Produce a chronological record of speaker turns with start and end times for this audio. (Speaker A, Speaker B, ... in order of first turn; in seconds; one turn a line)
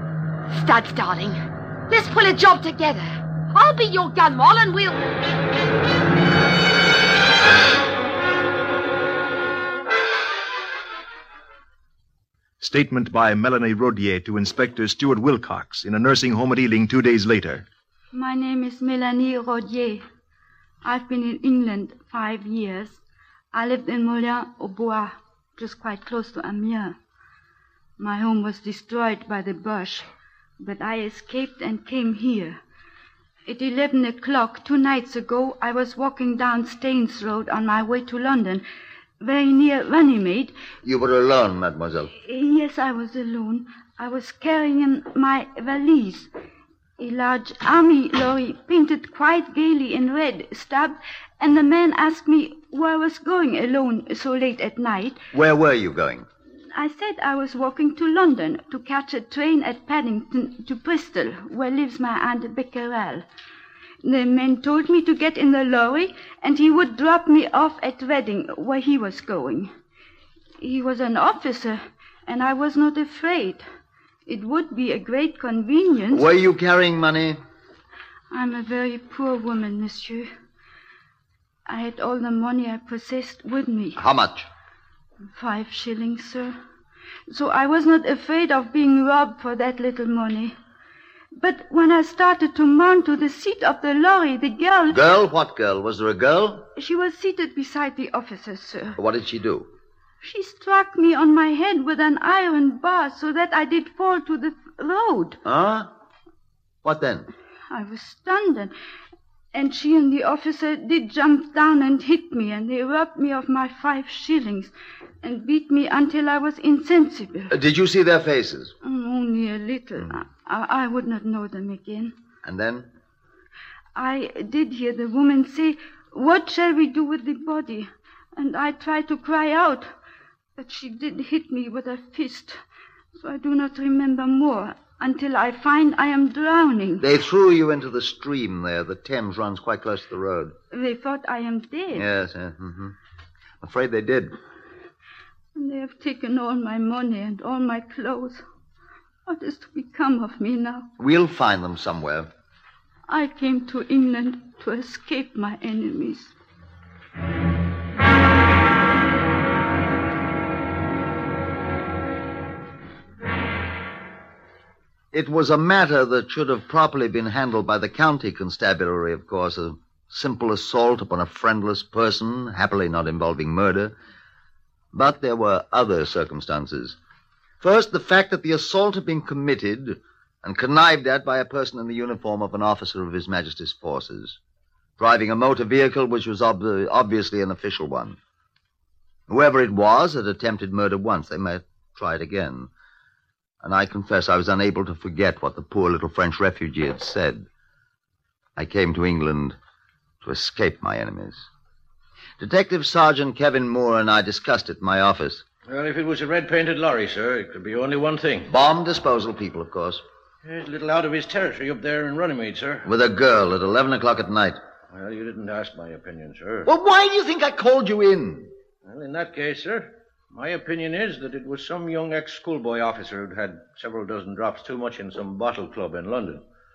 Speaker A: 0.5-5.0
Speaker B: 12.6-17.6
Speaker C: 18.1-20.0
Speaker C: 20.8-23.0
Speaker C: 23.5-27.0
Speaker C: 28.0-30.1
Speaker C: 30.6-32.6
Speaker C: 33.5-38.6
Speaker C: 39.2-40.5
Speaker D: 40.8-42.1
Speaker C: 42.2-46.3
Speaker C: 47.0-55.2
Speaker D: 55.3-56.3
Speaker C: 56.7-63.2
Speaker C: 64.0-69.7
Speaker C: 70.6-73.7
Speaker C: 74.3-76.2
Speaker D: 76.1-77.4
Speaker C: 78.3-80.3
Speaker C: 81.7-84.0
Speaker D: 84.0-84.5
Speaker C: 85.3-86.5
Speaker C: 87.3-90.5
Speaker C: 91.3-95.0
Speaker D: 94.9-96.7
Speaker C: 96.8-99.0
Speaker D: 99.0-99.7
Speaker C: 100.2-105.4
Speaker D: 105.5-105.9
Speaker D: 106.8-107.3
Speaker C: 107.7-108.7
Speaker C: 109.5-117.5
Speaker D: 117.5-118.7
Speaker C: 118.8-122.1
Speaker D: 122.4-122.9
Speaker C: 124.0-129.9
Speaker C: 130.6-132.6
Speaker C: 133.2-137.0
Speaker D: 137.0-140.5
Speaker C: 140.7-142.1
Speaker D: 141.9-142.9
Speaker D: 143.6-144.3
Speaker C: 145.6-148.4
Speaker C: 149.3-150.9
Speaker D: 151.0-152.3
Speaker C: 153.1-156.3
Speaker D: 165.1-173.9
Speaker D: 174.9-177.0
Speaker D: 177.6-184.4
Speaker D: 185.0-188.2
Speaker D: 189.3-192.7
Speaker D: 193.6-197.5
Speaker D: 198.6-199.6
Speaker D: 200.2-201.5
Speaker D: 202.4-205.4
Speaker E: 205.7-208.5
Speaker D: 208.5-210.0
Speaker E: 210.4-212.9
Speaker D: 212.8-214.6
Speaker E: 214.9-216.7
Speaker D: 216.7-218.5
Speaker E: 218.8-226.4